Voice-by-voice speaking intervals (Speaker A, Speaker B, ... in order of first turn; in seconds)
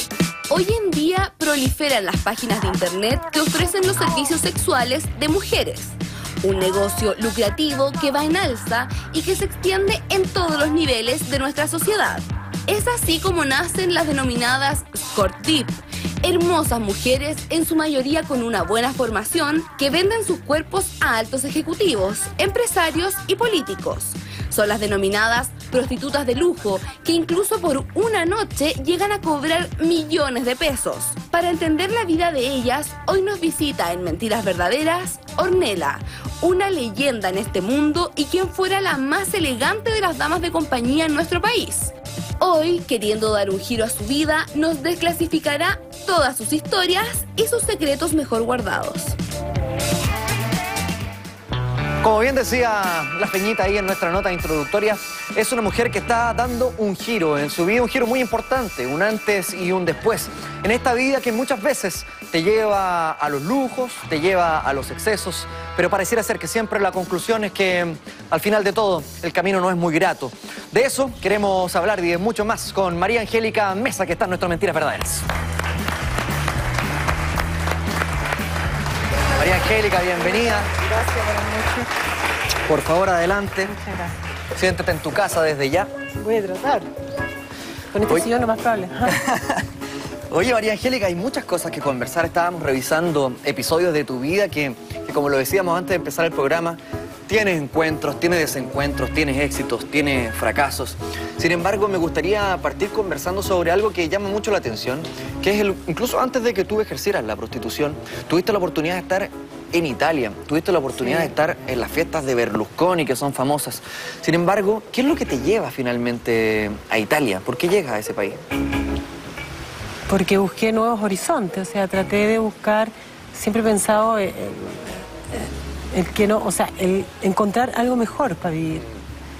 Speaker A: 0.5-49.2
Speaker B: 52.0-75.3, 79.3-80.7, 82.7-83.9, 84.5-85.9, 89.0-89.7, 90.3-118.4
Speaker C: 80.8-81.9, 83.8-84.1, 86.1-86.9, 87.9-89.2, 120.1-128.8